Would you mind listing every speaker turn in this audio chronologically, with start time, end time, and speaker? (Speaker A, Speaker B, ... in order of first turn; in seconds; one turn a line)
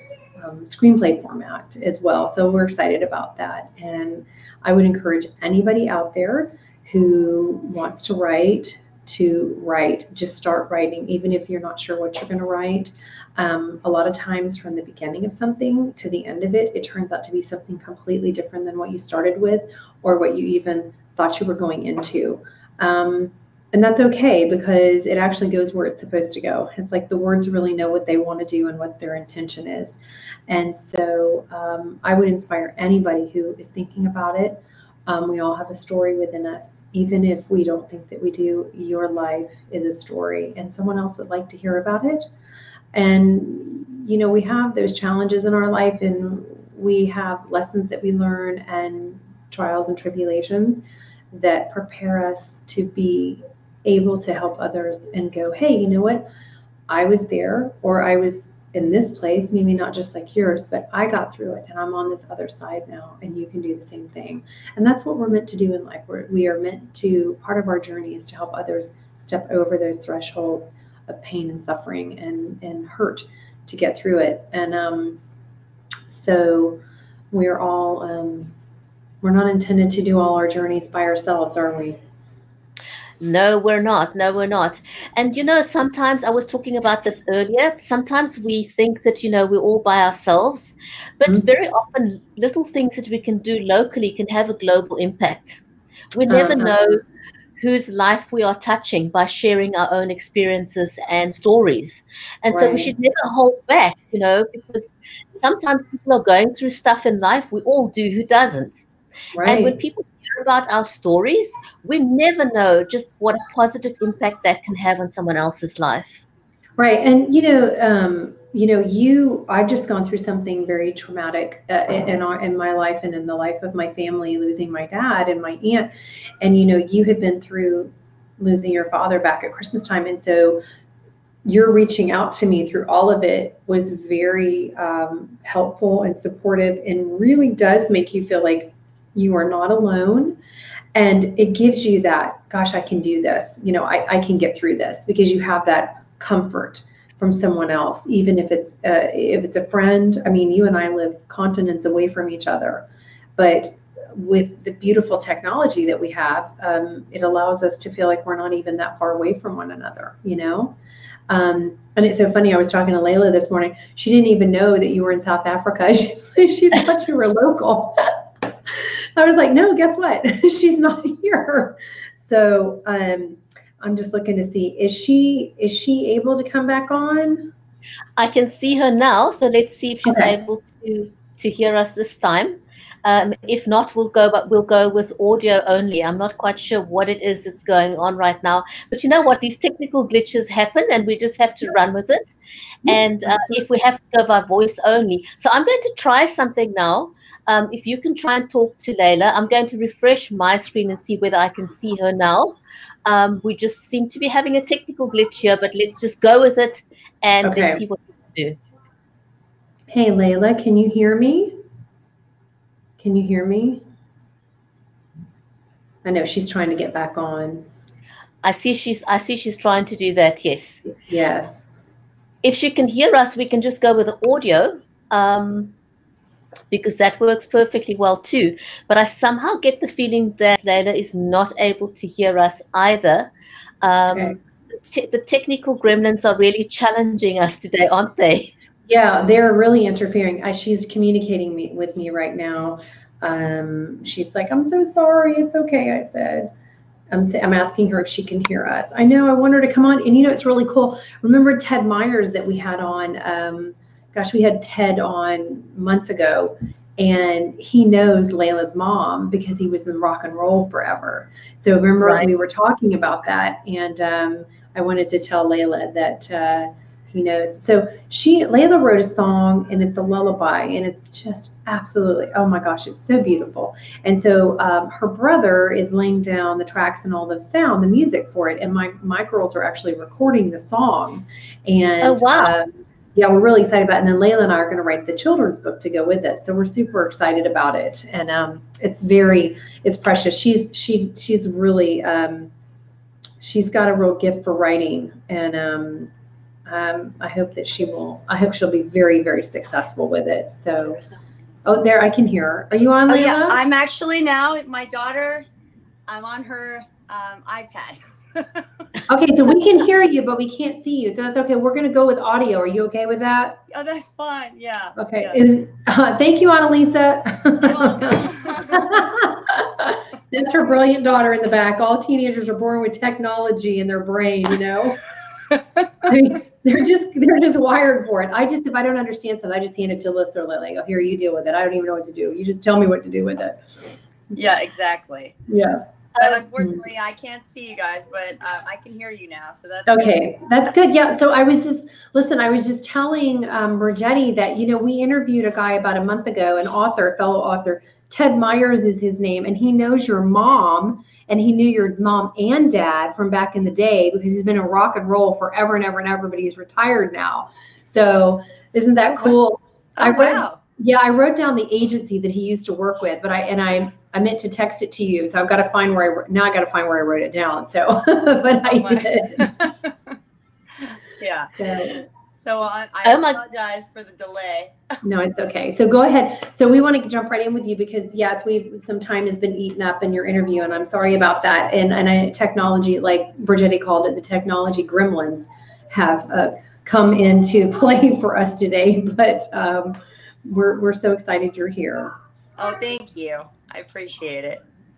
Speaker A: 0.4-42.3
Speaker A: 42.9-56.2
Speaker A: 56.9-75.2
Speaker A: 76.1-76.8
Speaker A: 77.3-78.5
Speaker A: 79.2-82.0
Speaker B: 83.2-95.6
Speaker B: 96.1-97.0
Speaker A: 96.3-96.9
Speaker B: 97.6-108.8
Speaker A: 102.5-102.9
Speaker A: 109.3-109.8
Speaker B: 109.4-116.2
Speaker A: 116.8-125.9
Speaker A: 126.4-130.6
Speaker A: 131.4-140.4
Speaker A: 140.9-160.8
Speaker A: 161.3-168.2
Speaker A: 169.2-177.5
Speaker B: 178.2-192.3
Speaker A: 180.0-180.3
Speaker A: 192.8-193.6
Speaker B: 192.8-208.6
Speaker A: 207.4-207.8
Speaker A: 209.9-211.6
Speaker A: 213.0-213.8
Speaker A: 216.0-217.7
Speaker B: 218.4-220.8
Speaker A: 220.9-221.7
Speaker B: 222.4-225.7
Speaker B: 226.7-233.3
Speaker B: 233.8-238.5
Speaker A: 234.1-234.4
Speaker A: 238.9-246.5
Speaker A: 247.1-292.5
Speaker B: 262.0-262.3
Speaker B: 282.0-282.5
Speaker A: 293.4-296.1
Speaker A: 296.7-301.0
Speaker A: 301.6-303.6
Speaker C: 303.1-305.4
Speaker C: 306.1-308.7
Speaker A: 309.1-313.6
Speaker C: 313.7-315.4
Speaker A: 315.0-325.0
Speaker C: 317.6-319.1
Speaker C: 325.5-326.1
Speaker A: 326.0-334.0
Speaker C: 334.3-335.4
Speaker A: 335.5-336.8
Speaker C: 336.2-340.2
Speaker A: 339.9-369.5
Speaker C: 359.0-359.4
Speaker C: 360.0-360.6
Speaker C: 368.7-369.9
Speaker C: 370.8-371.6
Speaker A: 371.6-372.0
Speaker C: 372.4-374.8
Speaker B: 373.0-373.4
Speaker A: 375.0-392.1
Speaker C: 392.6-394.6